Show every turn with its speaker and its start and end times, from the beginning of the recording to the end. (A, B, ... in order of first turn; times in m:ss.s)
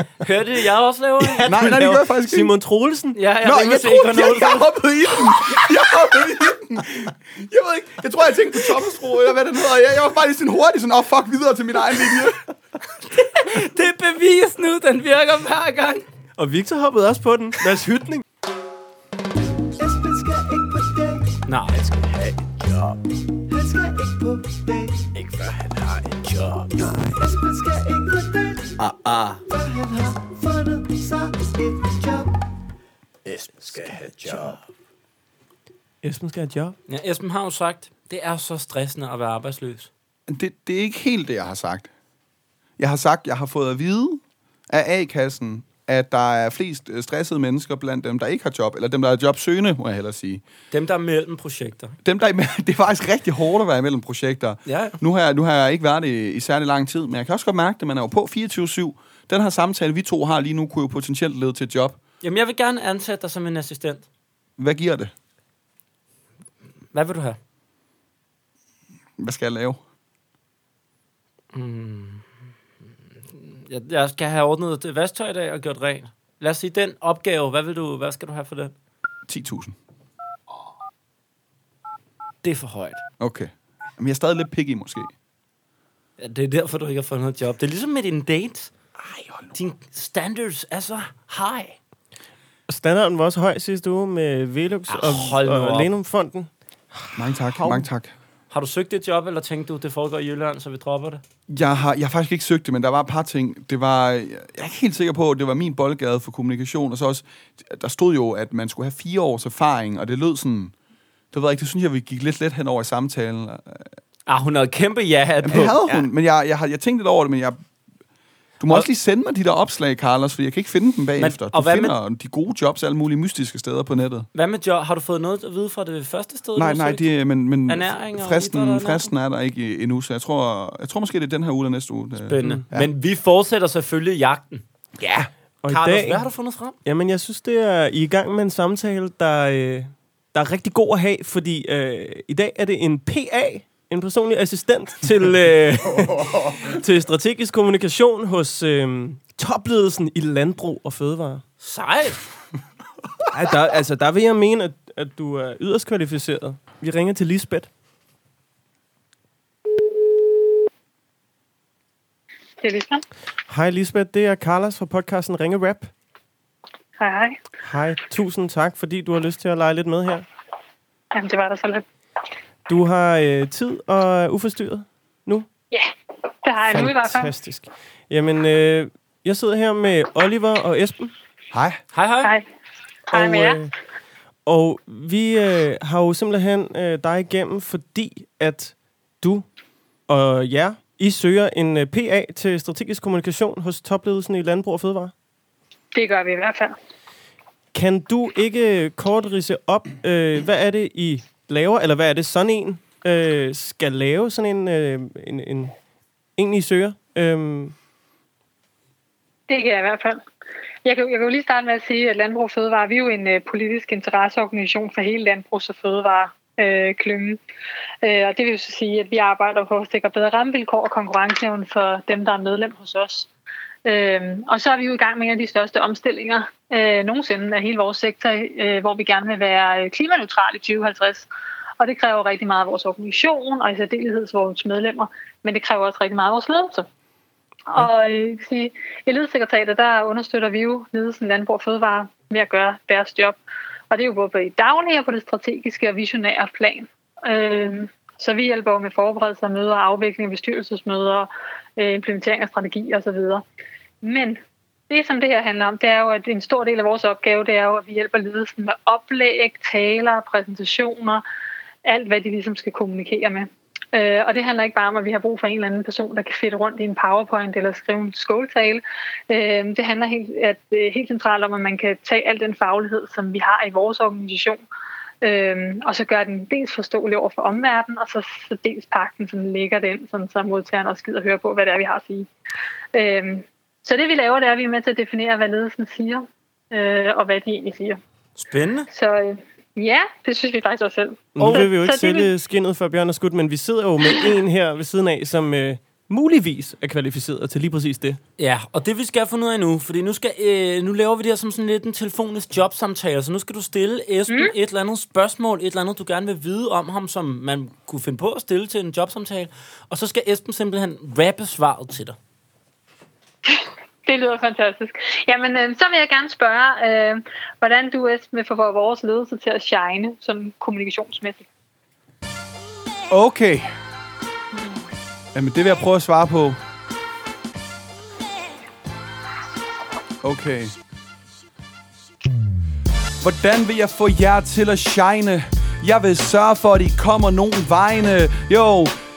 0:00.2-0:01.6 A
0:01.4-0:03.2 B
0:01.4-0:02.6 C
0:03.1-0:04.7 A
0:03.4-0:12.4 C
0:13.2-0:16.0 A
0:16.4-0:18.2 B
0:19.8-0:21.2 D
0:21.5-0:21.8 A
0:21.8-0:23.0 D
0:23.5-0:32.3 D
0:33.3-0:34.6 D
0:34.2-0:34.6 B
0:36.0-0:36.8 B
0:36.9-0:39.9 A
0:40.3-0:41.9 C
0:42.8-0:50.4 C
0:50.7-0:52.0 A
0:52.0-1:02.0 C
0:54.6-0:55.0 A
1:02.2-1:04.1 A
1:04.6-1:05.1 C
1:06.9-1:07.4 A
1:09.2-1:09.8 C
1:11.5-1:12.2 A
1:13.3-1:18.7 A
1:19.3-1:19.8 C
1:22.4-1:23.0 A
1:23.2-1:25.1 C
1:26.2-1:28.7 A
1:29.1-1:29.5 C
1:29.5-1:31.8 A
1:32.7-1:37.9 B
1:34.9-1:35.9 A
1:37.1-1:38.1 C
1:38.5-1:41.2 A
1:41.5-1:50.7 C
1:51.3-1:53.9 C
1:54.3-1:56.1 A
1:55.4-1:57.6 C
1:58.6-2:04.3 C
2:01.2-2:02.0 A
2:04.3-2:07.1 A
2:06.6-2:12.9 C
2:07.7-2:09.1 A
2:12.3-2:14.6 A
2:15.0-2:15.3 C
2:15.6-2:16.3 B
2:15.7-2:16.8 A
2:16.8-2:31.4 B
2:31.6-2:32.2 A
2:33.3-2:37.7 B
2:42.6-2:43.0 E
2:43.5-2:45.9 B
2:47.0-2:47.4 E
2:47.6-2:50.3 B
2:51.1-2:51.8 E
2:52.7-2:55.5 B
2:56.4-2:57.3 E
2:56.7-3:01.1 B
3:01.5-3:01.8 C
3:01.9-3:02.3 A
3:02.2-3:02.5 E
3:03.1-3:03.7 E
3:03.1-3:03.7 B
3:04.5-3:09.5 B
3:10.1-3:15.1 B
3:15.9-3:16.8 E
3:17.7-3:25.7 B
3:26.4-3:27.8 B
3:29.5-3:30.2 E
3:30.8-3:37.4 E
3:38.0-3:43.3 E
3:43.9-3:51.3 E
3:51.8-3:56.9 E
3:57.7-4:03.4 E
4:03.9-4:13.4 E
4:14.0-4:21.2 E
4:21.8-4:34.6 E
4:35.2-4:42.3 E
4:42.9-4:48.0 E
4:48.4-4:48.9 A
4:48.9-4:52.3 E
4:51.4-4:58.2 B
4:51.4-4:51.7 A
4:58.4-5:12.2 A
5:04.3-5:04.5 E
5:14.1-5:21.5 E
5:23.1-5:23.7 C
5:25.3-5:26.6 C
5:30.2-5:30.7 C
5:33.2-5:38.9 C